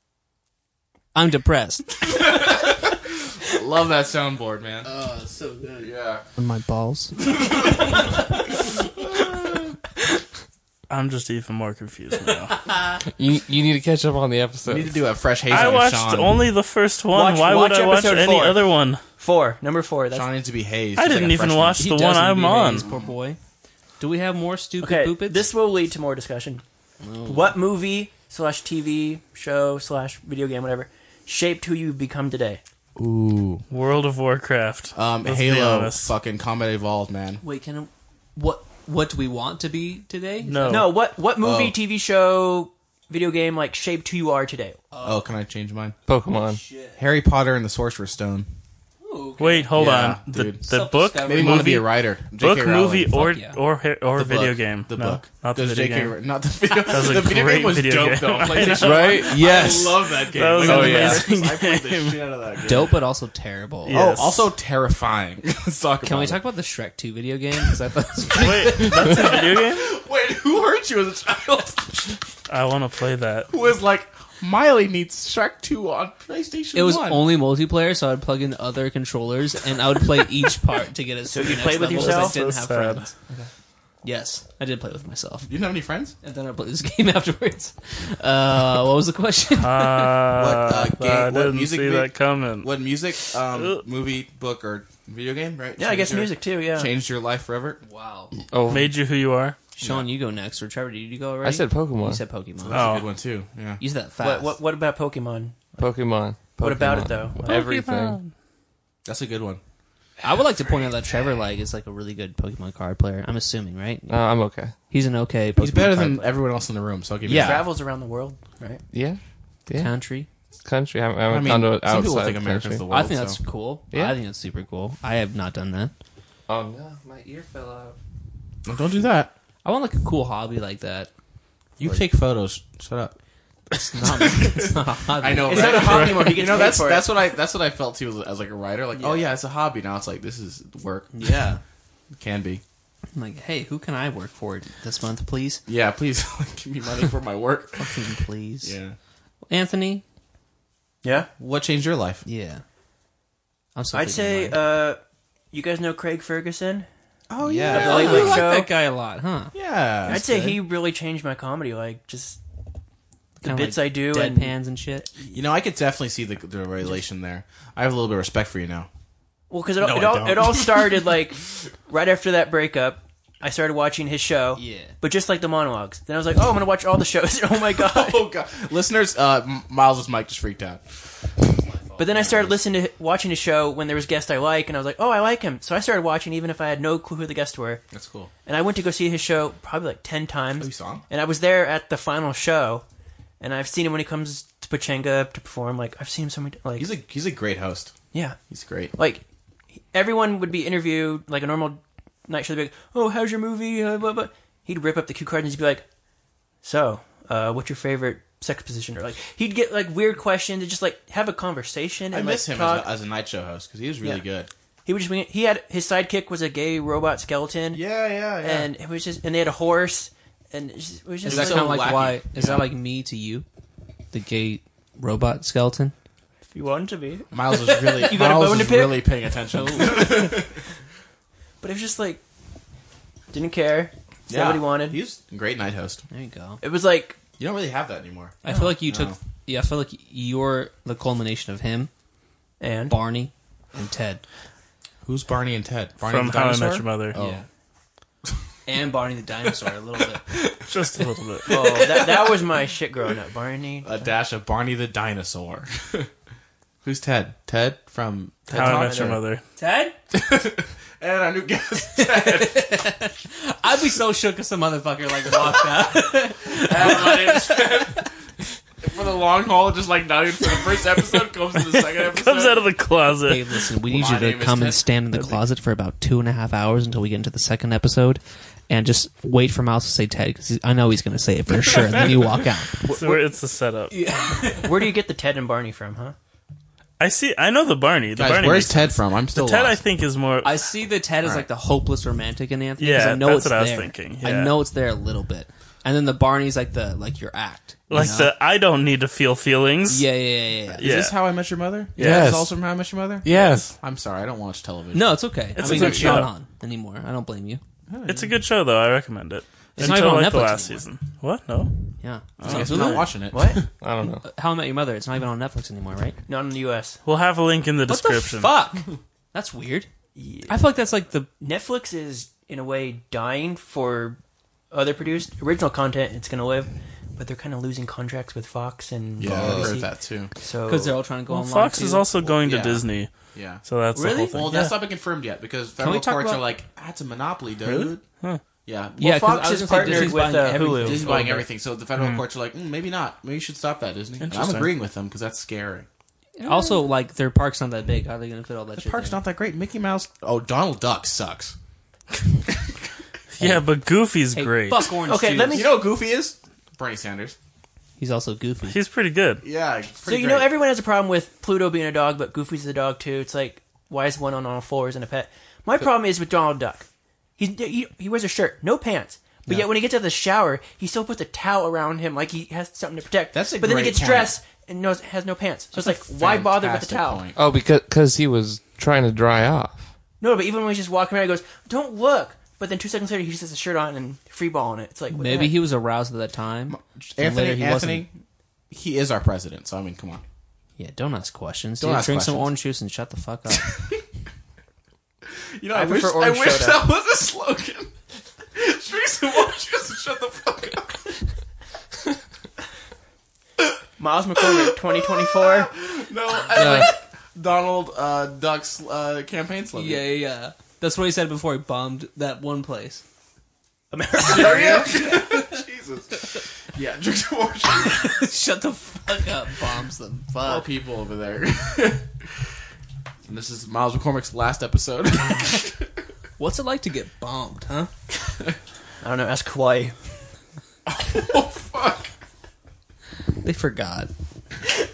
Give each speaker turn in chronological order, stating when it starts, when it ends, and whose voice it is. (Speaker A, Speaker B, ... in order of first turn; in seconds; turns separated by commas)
Speaker A: 1.1-2.2, Speaker B: 2.0-4.9, Speaker A: 4.8-7.4, Speaker B: 5.8-6.2, Speaker B: 7.2-8.1, Speaker B: 8.7-9.7, Speaker C: 10.9-12.7, Speaker A: 12.7-13.0, Speaker D: 13.2-14.9, Speaker B: 14.7-16.4, Speaker C: 15.5-19.0, Speaker E: 17.1-18.7, Speaker E: 19.2-20.3, Speaker B: 20.1-22.0, Speaker C: 21.0-22.9, Speaker A: 21.8-23.4, Speaker B: 22.8-23.1, Speaker A: 24.0-25.4, Speaker E: 24.8-26.6, Speaker A: 27.0-27.6, Speaker E: 27.3-32.6, Speaker B: 33.0-33.6, Speaker C: 33.7-36.1, Speaker B: 35.0-37.4, Speaker A: 37.4-40.9, Speaker C: 40.5-40.9, Speaker E: 40.7-44.8, Speaker B: 41.4-41.8, Speaker A: 44.9-45.3, Speaker B: 45.0-46.0, Speaker D: 46.1-46.6, Speaker A: 46.4-47.0, Speaker B: 47.0-48.5, Speaker A: 49.0-49.7, Speaker C: 49.4-56.2, Speaker B: 49.8-50.6, Speaker A: 50.7-51.7, Speaker B: 51.2-53.2, Speaker A: 53.1-53.6, Speaker B: 54.2-63.0, Speaker C: 56.8-59.3, Speaker D: 58.7-59.8, Speaker A: 59.2-60.0, Speaker C: 60.3-62.2, Speaker D: 60.6-61.2, Speaker A: 60.8-61.1, Speaker A: 62.7-64.0, Speaker C: 63.9-64.5, Speaker B: 63.9-66.4, Speaker A: 66.0-69.2, Speaker C: 68.3-69.9, Speaker B: 68.4-72.2, Speaker C: 72.5-73.5, Speaker B: 73.5-77.3, Speaker A: 76.7-83.1, Speaker E: 81.3-82.4, Speaker C: 81.9-83.1, Speaker A: 84.0-85.5, Speaker B: 85.5-86.2, Speaker A: 86.2-90.2, Speaker C: 89.6-92.7, Speaker B: 90.3-97.8, Speaker C: 93.5-93.8, Speaker E: 95.8-96.9, Speaker A: 97.8-98.3, Speaker D: 98.5-98.9, Speaker C: 98.7-99.6, Speaker A: 99.8-102.9, Speaker B: 99.8-100.1, Speaker D: 101.4-102.2, Speaker B: 102.6-103.8, Speaker C: 102.7-103.1, Speaker A: 103.8-104.6, Speaker E: 104.2-105.8, Speaker D: 105.8-108.2, Speaker E: 106.6-107.4, Speaker C: 107.5-108.3, Speaker B: 109.0-109.6, Speaker A: 110.2-114.3, Speaker D: 114.1-114.7, Speaker A: 114.9-116.3, Speaker B: 115.6-117.7, Speaker A: 117.3-117.7, Speaker E: 117.3-118.8, Speaker D: 118.9-119.9, Speaker A: 119.8-120.3, Speaker D: 120.6-122.8, Speaker B: 121.3-123.4, Speaker A: 122.9-125.9, Speaker D: 123.9-124.2, Speaker D: 126.5-128.0, Speaker B: 128.7-129.3, Speaker A: 129.6-131.1, Speaker B: 131.8-133.2, Speaker A: 133.7-136.3, Speaker B: 134.0-141.4, Speaker E: 135.5-137.1, Speaker A: 139.0-139.2, Speaker A: 141.1-141.6, Speaker B: 142.2-142.6, Speaker A: 143.2-145.6, Speaker B: 145.7-148.1, Speaker A: 147.8-148.8, Speaker B: 148.6-149.0, Speaker A: 149.5-150.0, Speaker E: 151.0-151.3, Speaker B: 151.4-152.2, Speaker A: 152.2-152.6, Speaker A: 153.8-154.6, Speaker E: 153.9-155.0, Speaker E: 155.5-156.9, Speaker B: 157.3-158.5, Speaker A: 157.4-159.5, Speaker E: 157.7-158.7, Speaker B: 159.5-160.6, Speaker E: 160.1-162.4, Speaker A: 160.1-160.5, Speaker A: 163.4-165.1, Speaker E: 163.4-164.6, Speaker B: 165.3-168.9, Speaker E: 169.5-178.2, Speaker B: 169.8-171.2, Speaker A: 174.6-174.9, Speaker B: 177.8-182.6, Speaker A: 181.6-182.2, Speaker E: 182.0-187.8, Speaker B: 187.9-188.3, Speaker E: 188.4-192.8, Speaker B: 190.6-191.1, Speaker E: 193.4-196.9, Speaker B: 196.8-197.9, Speaker E: 198.1-198.4, Speaker B: 198.5-198.9, Speaker E: 198.9-199.2, Speaker E: 199.8-205.8, Speaker E: 206.6-212.9, Speaker B: 212.1-214.5, Speaker E: 214.8-217.8, Speaker B: 217.7-218.7, Speaker E: 218.4-221.8, Speaker A: 221.2-223.5, Speaker B: 221.2-222.7, Speaker A: 224.1-225.9, Speaker E: 226.5-229.2, Speaker B: 227.3-230.6, Speaker A: 229.5-230.3, Speaker E: 229.9-230.3, Speaker E: 231.6-232.2, Speaker E: 233.3-235.0, Speaker B: 234.3-236.0, Speaker A: 236.1-236.6, Speaker E: 236.6-237.2, Speaker B: 237.4-239.2, Speaker A: 238.4-241.9, Speaker E: 238.5-238.7, Speaker E: 242.6-243.0, Speaker A: 242.9-244.2, Speaker B: 245.1-247.4, Speaker C: 246.1-247.2, Speaker A: 247.2-247.4, Speaker A: 248.7-250.2, Speaker B: 250.3-250.6, Speaker C: 250.7-251.5, Speaker B: 251.4-252.2, Speaker E: 251.5-254.1, Speaker B: 253.8-256.1, Speaker B: 256.8-259.2, Speaker E: 258.5-259.2, Speaker C: 258.5-259.4, Speaker A: 259.6-260.0, Speaker B: 260.1-262.8, Speaker A: 262.0-268.0, Speaker B: 266.5-268.1, Speaker B: 268.8-272.6, Speaker C: 272.1-273.5, Speaker A: 273.3-282.9, Speaker B: 273.9-274.9, Speaker C: 282.9-283.9, Speaker A: 283.9-285.0, Speaker E: 284.6-286.2, Speaker C: 287.0-290.7, Speaker B: 288.2-289.8, Speaker A: 290.4-298.2, Speaker C: 292.8-294.6, Speaker C: 297.9-300.1, Speaker B: 297.9-298.3, Speaker A: 299.9-300.9, Speaker B: 300.7-306.3, Speaker C: 300.8-301.2, Speaker C: 302.0-302.5, Speaker D: 302.0-302.4, Speaker C: 303.2-303.8, Speaker A: 304.9-307.6, Speaker C: 305.6-306.3, Speaker B: 307.9-308.4, Speaker C: 308.1-313.1, Speaker A: 309.8-310.9, Speaker A: 312.0-313.0, Speaker B: 312.4-313.6, Speaker E: 313.3-313.6, Speaker D: 313.8-314.3, Speaker A: 314.2-316.2, Speaker E: 316.3-317.0, Speaker C: 317.1-318.5, Speaker A: 317.9-319.9, Speaker E: 320.1-320.6, Speaker A: 320.5-321.3, Speaker E: 321.4-324.2, Speaker E: 324.7-331.0, Speaker B: 329.2-330.3, Speaker A: 329.3-329.7, Speaker A: 330.6-332.1, Speaker C: 331.3-334.7, Speaker B: 332.2-333.6, Speaker A: 333.9-334.7, Speaker B: 334.3-338.0, Speaker A: 335.8-336.5, Speaker C: 337.7-338.4, Speaker B: 338.7-340.3, Speaker E: 339.0-341.4, Speaker A: 339.0-341.4, Speaker B: 340.8-345.9, Speaker C: 344.2-344.7, Speaker A: 346.4-349.2, Speaker B: 348.8-351.6, Speaker C: 353.3-354.9, Speaker A: 354.3-355.7, Speaker E: 355.1-355.8, Speaker B: 355.5-357.4, Speaker A: 358.0-358.8, Speaker C: 358.7-359.4, Speaker B: 359.4-360.5, Speaker E: 360.1-366.9, Speaker E: 367.4-377.3, Speaker B: 373.3-374.3, Speaker B: 375.8-377.4, Speaker D: 377.4-379.9, Speaker E: 380.2-385.6, Speaker A: 385.1-388.1, Speaker B: 386.7-390.2, Speaker A: 390.8-393.8, Speaker B: 391.8-392.5, Speaker B: 393.6-394.0, Speaker B: 395.6-397.9, Speaker E: 395.7-396.9, Speaker B: 398.5-401.2, Speaker E: 404.0-405.7, Speaker B: 404.4-410.1, Speaker D: 406.6-406.9, Speaker A: 409.7-413.0, Speaker E: 413.9-415.2, Speaker B: 414.2-418.2, Speaker A: 417.9-420.7, Speaker B: 420.4-422.2, Speaker B: 423.3-425.8, Speaker A: 426.4-427.9, Speaker E: 429.0-430.0, Speaker B: 430.9-432.1, Speaker A: 433.4-434.1